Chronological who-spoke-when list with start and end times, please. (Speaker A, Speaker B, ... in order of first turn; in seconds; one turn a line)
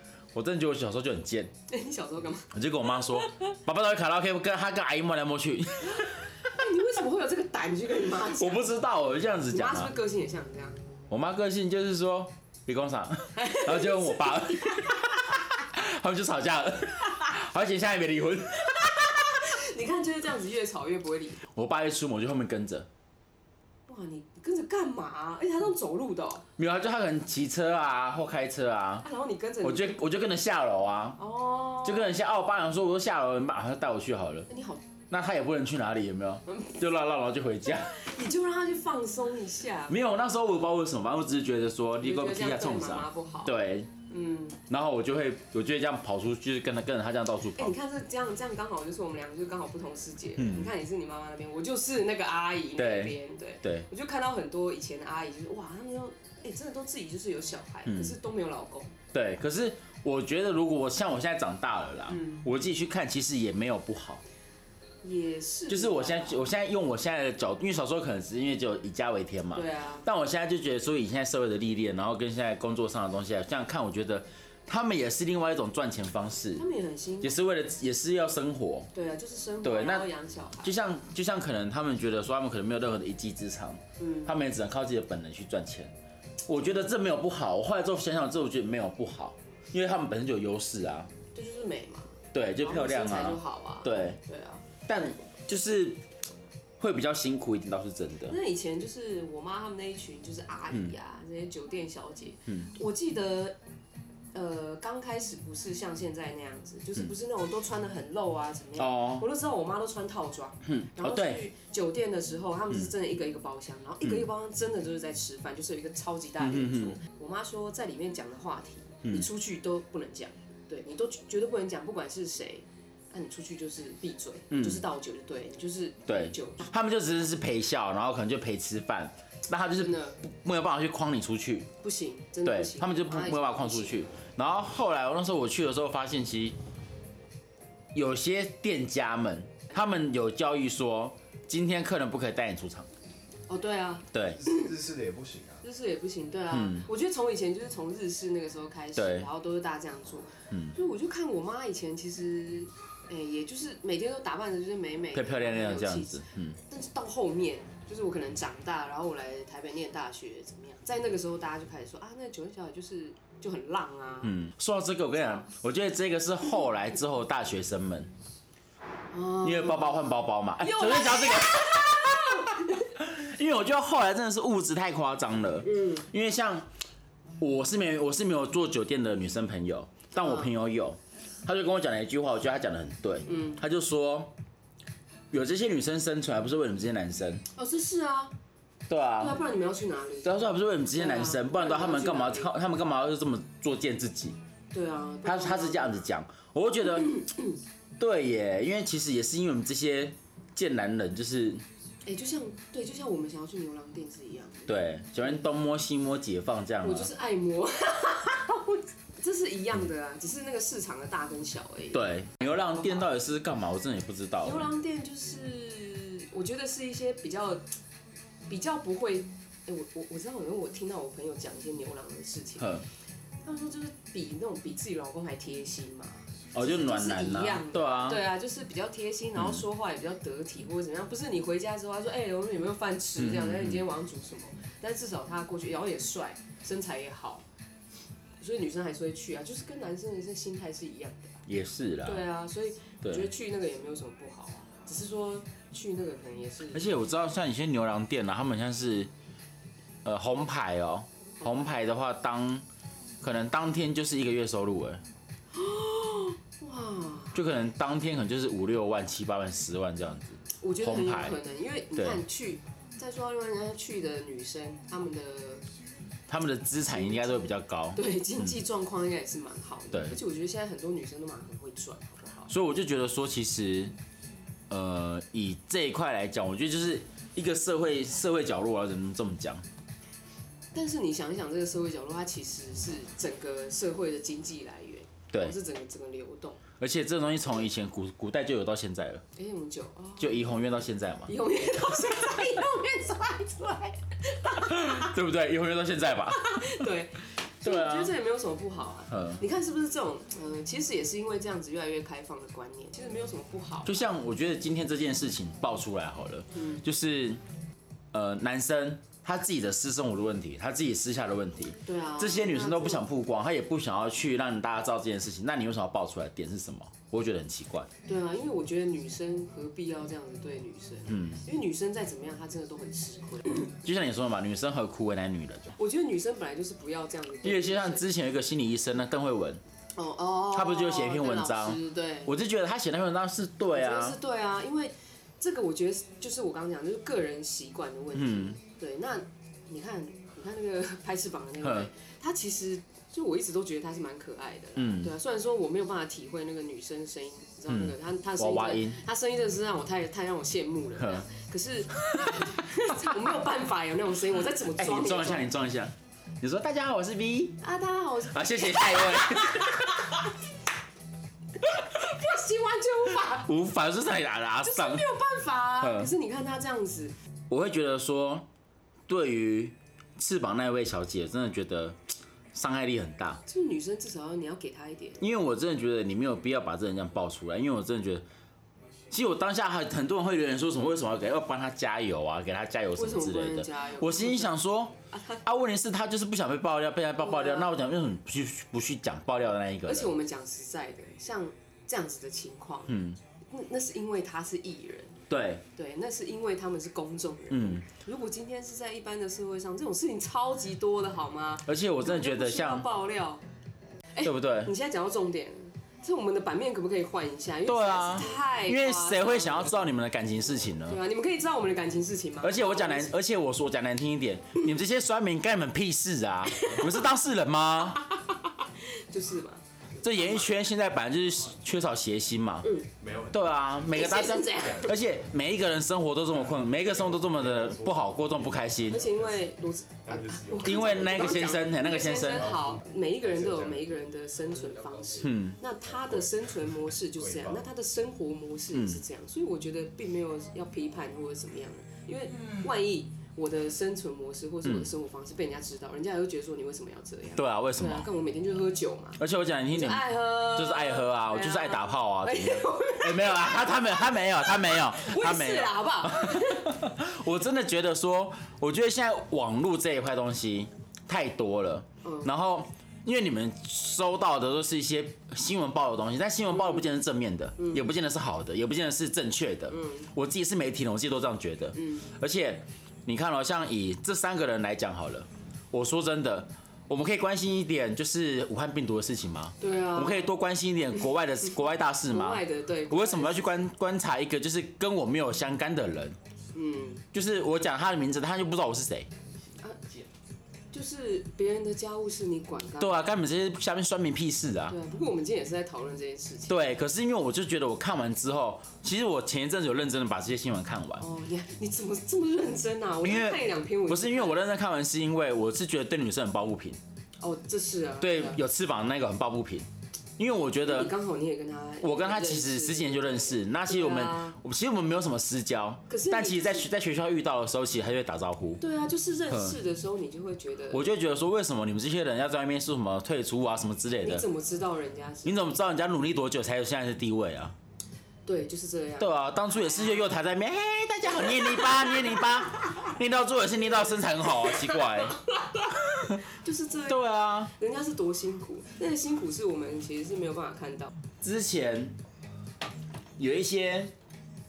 Speaker A: 0.3-1.5
Speaker B: 1.7-3.5
Speaker A: 2.5-6.1
Speaker B: 5.8-8.7
Speaker A: 8.1-9.9
Speaker B: 9.5-10.8
Speaker A: 11.1-18.9
Speaker B: 13.3-15.1
Speaker B: 18.7-21.4
Speaker A: 21.5-22.9
Speaker B: 23.9-26.4
Speaker A: 26.6-29.1
Speaker B: 29.0-30.0
Speaker A: 29.6-31.2
Speaker B: 31.2-32.1
Speaker A: 31.8-34.5
Speaker B: 34.5-34.8
Speaker A: 35.1-38.0
Speaker B: 36.5-36.8
Speaker B: 37.9-40.0
Speaker A: 39.9-43.9
Speaker B: 42.0-44.6
Speaker A: 44.7-47.7
Speaker B: 47.5-59.0
Speaker A: 50.4-50.7
Speaker A: 52.8-53.9
Speaker A: 57.9-58.1
Speaker A: 59.1-64.2
Speaker B: 62.1-62.5
Speaker B: 65.0-66.5
Speaker A: 65.7-76.6
Speaker B: 69.5-70.0
Speaker B: 76.6-77.4
Speaker A: 77.2-78.9
Speaker B: 78.9-80.8
Speaker A: 79.6-80.1
Speaker A: 80.6-85.9
Speaker B: 84.0-84.3
Speaker A: 86.5-91.1
Speaker B: 91.3-94.6
Speaker A: 92.3-94.2
Speaker A: 94.8-96.0
Speaker A: 96.8-98.4
Speaker B: 98.3-103.6
Speaker B: 104.3-126.7
Speaker A: 108.8-109.2
Speaker A: 110.7-111.4
Speaker A: 116.4-117.0
Speaker A: 124.5-124.8
Speaker A: 126.0-131.7
Speaker B: 129.8-130.2
Speaker B: 131.8-134.0
Speaker A: 132.4-136.6
Speaker A: 137.9-142.9
Speaker B: 143.5-144.7
Speaker A: 144.1-144.4
Speaker C: 144.3-145.6
Speaker B: 145.6-164.3
Speaker A: 146.5-146.9
Speaker A: 148.9-149.3
Speaker A: 155.1-156.6
Speaker A: 164.2-168.1
Speaker B: 169.1-172.9
Speaker A: 169.4-176.7
Speaker B: 175.6-176.1
Speaker A: 177.4-184.3
Speaker B: 180.1-180.5
Speaker B: 183.3-183.6
Speaker A: 185.3-187.4
Speaker B: 187.5-188.3
Speaker A: 188.9-189.4
Speaker B: 189.2-192.5
Speaker A: 190.2-194.4
Speaker B: 194.7-196.1
Speaker A: 195.2-197.2
Speaker B: 196.9-197.6
Speaker A: 198.0-201.6
Speaker B: 202.1-205.3
Speaker A: 204.7-207.1
Speaker B: 206.8-212.1
Speaker A: 211.9-214.7
Speaker B: 214.4-217.7
Speaker B: 218.5-222.8
Speaker A: 222.6-222.8
Speaker B: 223.4-237.4
Speaker A: 226.5-228.2
Speaker A: 229.4-229.6
Speaker A: 233.2-233.8
Speaker B: 238.4-241.4
Speaker A: 241.5-242.2
Speaker B: 242.0-246.9
Speaker A: 243.0-243.3
Speaker A: 246.7-249.1
Speaker A: 250.0-252.7
Speaker B: 251.4-251.7
Speaker A: 253.2-255.0
Speaker B: 255.5-257.4
Speaker A: 257.3-261.4
Speaker B: 260.6-265.6
Speaker A: 261.9-262.2
Speaker A: 266.3-268.5
Speaker B: 266.9-267.3
Speaker B: 267.9-272.5
Speaker A: 269.9-270.2
Speaker A: 272.5-273.9
Speaker A: 274.7-279.6
Speaker B: 280.7-286.6
Speaker A: 286.8-289.2
Speaker B: 289.3-290.5
Speaker A: 290.2-291.3
Speaker B: 291.3-295.1
Speaker A: 294.7-296.7
Speaker B: 296.3-304.1
Speaker A: 297.6-298.1
Speaker A: 299.1-299.4
Speaker A: 303.8-307.4
Speaker B: 306.5-306.8
Speaker A: 308.1-317.9
Speaker B: 311.9-313.0
Speaker B: 318.1-323.7
Speaker A: 321.1-321.4
Speaker A: 323.7-325.7
Speaker B: 325.8-328.0
Speaker A: 327.4-329.6
Speaker B: 330.0-332.3
Speaker A: 330.5-334.2
Speaker B: 333.7-355.5
Speaker A: 338.1-338.6
Speaker A: 341.6-341.9
Speaker A: 344.8-345.1
Speaker A: 347.7-349.0
Speaker A: 351.0-351.2
Speaker A: 352.2-352.5
Speaker A: 354.6-357.6
Speaker B: 357.6-360.3
Speaker A: 358.3-360.1
Speaker B: 361.6-363.5
Speaker A: 363.3-365.1
Speaker B: 364.6-367.1
Speaker A: 365.8-366.1
Speaker A: 367.5-368.5
Speaker A: 369.1-372.0
Speaker A: 372.5-373.4
Speaker B: 373.5-375.2
Speaker A: 375.2-378.2
Speaker A: 379.1-390.1
Speaker B: 382.9-384.5
Speaker B: 385.1-385.4
Speaker B: 387.2-387.7
Speaker B: 389.8-395.2
Speaker A: 392.9-393.2
Speaker A: 395.3-395.6
Speaker B: 395.7-403.4
Speaker A: 397.5-397.8
Speaker A: 401.6-402.9
Speaker B: 404.1-409.8
Speaker A: 404.2-404.7
Speaker A: 407.6-411.0
Speaker B: 410.9-413.1
Speaker A: 412.4-418.1
Speaker B: 416.5-417.1
Speaker B: 417.9-419.6
Speaker A: 420.0-422.8
Speaker C: 423.0-424.1
Speaker A: 423.3-429.0
Speaker B: 423.9-424.9
Speaker C: 426.5-429.5
Speaker B: 428.9-456.8
Speaker C: 430.1-433.9
Speaker A: 430.6-432.5
Speaker A: 435.2-435.6
Speaker C: 436.0-437.6
Speaker A: 438.7-439.0
Speaker A: 444.6-444.9
Speaker A: 447.4-448.1
Speaker A: 449.2-486.1
Speaker B: 462.0-462.3
Speaker B: 467.6-467.8
Speaker B: 469.7-470.1
Speaker B: 471.8-472.1
Speaker B: 479.6-480.3
Speaker B: 482.1-483.5
Speaker B: 486.5-487.0
Speaker A: 487.1-489.1
Speaker B: 490.7-493.0
Speaker A: 492.8-494.8
Speaker B: 494.7-496.7
Speaker A: 496.5-501.0
Speaker B: 501.0-504.4
Speaker A: 503.0-506.8
Speaker B: 507.2-508.4
Speaker A: 508.0-510.9
Speaker B: 510.6-514.4
Speaker A: 511.8-518.6
Speaker B: 515.9-516.7
Speaker B: 518.6-520.9
Speaker A: 519.3-519.6
Speaker A: 520.7-524.3
Speaker B: 524.0-525.5
Speaker A: 525.2-527.5
Speaker B: 528.2-530.1
Speaker A: 529.0-535.2
Speaker B: 531.1-532.9
Speaker B: 534.3-540.9
Speaker A: 536.9-537.5
Speaker A: 541.2-542.0
Speaker A: 543.2-543.9